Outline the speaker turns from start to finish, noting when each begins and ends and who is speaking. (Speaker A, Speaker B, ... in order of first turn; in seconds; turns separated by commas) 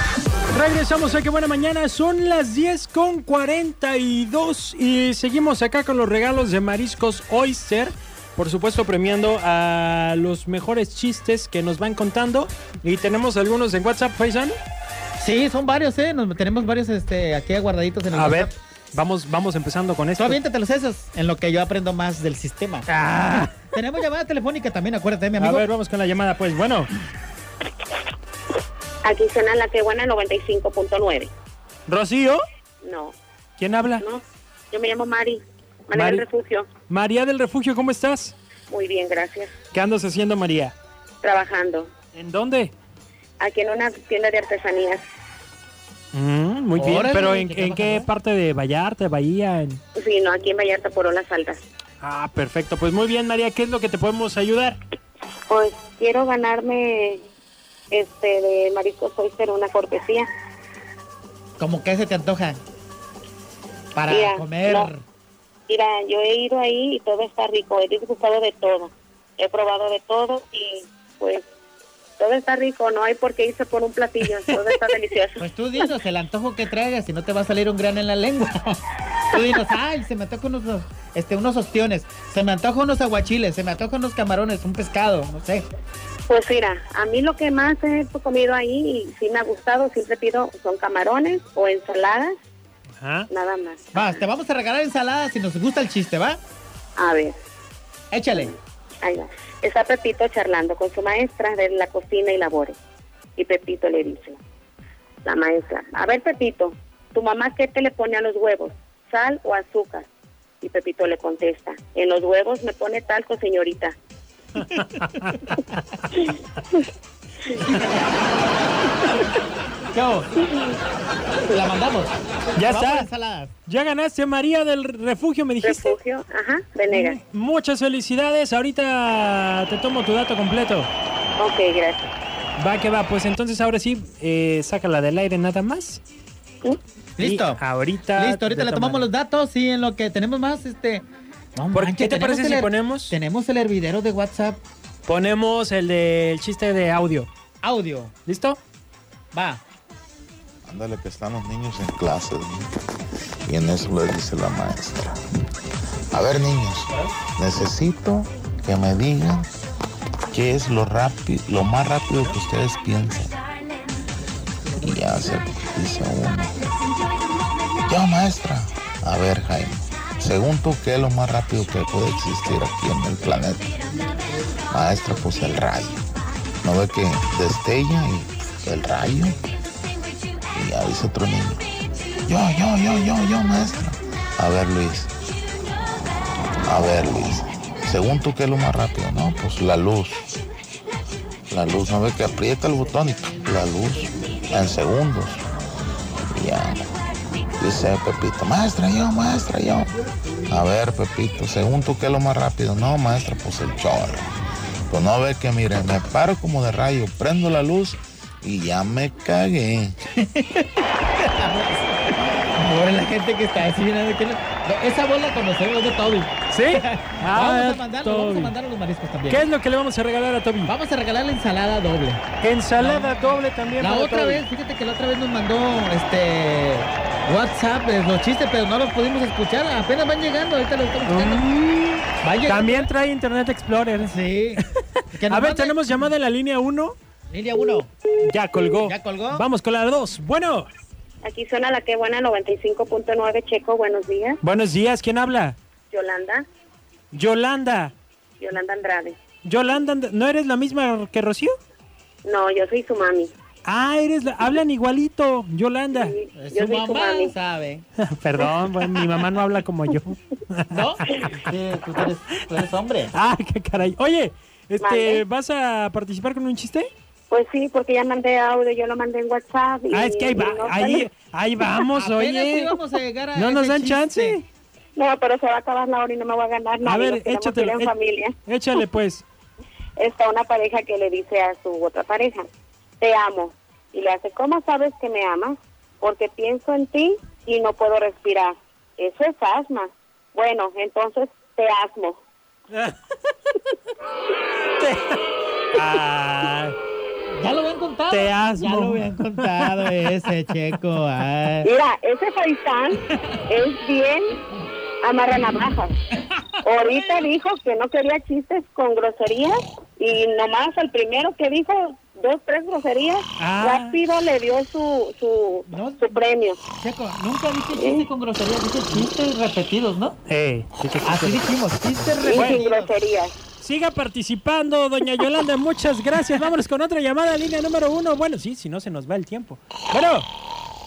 Speaker A: 0.5-14.6, Speaker B: 15.2-18.5, Speaker A: 18.1-20.4, Speaker B: 20.2-22.8, Speaker A: 22.9-23.7, Speaker B: 23.7-25.6, Speaker A: 25.4-26.9, Speaker C: 29.0-31.3, Speaker A: 31.9-32.4, Speaker C: 32.8-33.1, Speaker A: 33.6-34.0, Speaker C: 34.0-36.7, Speaker A: 35.9-36.2, Speaker A: 36.9-38.3, Speaker C: 38.7-39.5, Speaker A: 39.7-40.7, Speaker C: 41.2-41.9, Speaker A: 42.1-42.7, Speaker C: 43.4-45.0, Speaker A: 46.1-49.8, Speaker B: 46.8-48.1, Speaker C: 49.9-51.6, Speaker A: 52.0-54.8, Speaker C: 55.5-57.2, Speaker C: 57.9-60.2, Speaker B: 61.6-62.6, Speaker B: 63.9-65.0, Speaker C: 64.1-64.9, Speaker C: 65.7-71.4, Speaker C: 72.2-75.8, Speaker B: 75.4-78.8, Speaker B: 79.3-85.6, Speaker C: 86.3-92.3, Speaker A: 93.0-93.3, Speaker C: 93.3-94.2, Speaker B: 93.9-96.4, Speaker C: 97.0-97.4, Speaker B: 98.1-98.5, Speaker C: 98.3-102.8, Speaker C: 103.4-104.4, Speaker C: 105.2-110.1, Speaker C: 110.6-114.0, Speaker A: 114.7-115.7, Speaker B: 117.6-118.1, Speaker B: 119.9-120.3, Speaker B: 121.4-123.5, Speaker A: 122.5-123.1, Speaker A: 123.7-126.0, Speaker C: 125.6-127.2, Speaker A: 126.9-130.9, Speaker C: 131.4-132.1, Speaker A: 132.6-136.0, Speaker B: 137.2-137.6, Speaker A: 137.2-139.1, Speaker B: 138.1-144.6, Speaker A: 141.7-143.1, Speaker A: 145.1-147.3, Speaker B: 147.6-148.1, Speaker A: 148.2-148.6, Speaker B: 149.3-149.6, Speaker D: 150.6-152.7, Speaker D: 153.4-155.2, Speaker D: 156.1-159.5, Speaker D: 160.3-163.3, Speaker D: 164.8-166.6, Speaker D: 167.8-173.8, Speaker D: 174.7-176.0, Speaker D: 176.6-179.4, Speaker D: 180.5-181.7, Speaker D: 182.2-185.1, Speaker D: 186.6-190.3, Speaker D: 191.5-195.5, Speaker D: 196.3-196.9, Speaker D: 197.6-199.9, Speaker D: 200.5-204.3, Speaker D: 204.9-210.0, Speaker B: 210.2-219.4, Speaker A: 216.5-218.6, Speaker A: 219.3-220.7, Speaker B: 220.6-222.2, Speaker A: 222.4-224.4, Speaker B: 222.8-231.5, Speaker A: 231.1-234.6, Speaker B: 232.2-232.9, Speaker B: 234.0-234.6, Speaker B: 235.1-235.8, Speaker A: 235.2-236.9, Speaker B: 237.3-237.9, Speaker A: 238.2-240.7, Speaker B: 238.8-239.4, Speaker C: 241.2-244.4, Speaker A: 244.4-245.6, Speaker C: 245.9-246.4, Speaker A: 247.1-247.9, Speaker C: 248.4-249.2, Speaker A: 249.4-251.5, Speaker C: 252.2-253.3, Speaker A: 253.6-256.1, Speaker C: 255.9-257.3, Speaker B: 256.4-257.8, Speaker A: 258.1-261.3, Speaker B: 260.7-263.1, Speaker A: 263.1-266.9, Speaker C: 264.8-265.2, Speaker C: 267.3-271.1, Speaker A: 269.9-272.8, Speaker B: 271.9-274.4, Speaker A: 273.3-274.4, Speaker C: 274.9-278.4, Speaker A: 276.8-277.9, Speaker A: 278.4-279.2, Speaker C: 280.0-282.5, Speaker C: 283.0-292.2, Speaker A: 294.8-295.2, Speaker A: 295.7-296.8, Speaker B: 297.4-301.7, Speaker A: 298.1-300.2, Speaker C: 301.6-304.4, Speaker C: 305.0-305.9, Speaker C: 306.6-316.6, Speaker A: 313.4-314.0, Speaker B: 315.7-316.2, Speaker B: 316.8-320.2, Speaker C: 317.8-318.1, Speaker A: 320.3-321.7, Speaker B: 321.0-322.9, Speaker C: 322.2-323.3, Speaker A: 322.3-322.6, Speaker A: 323.6-330.3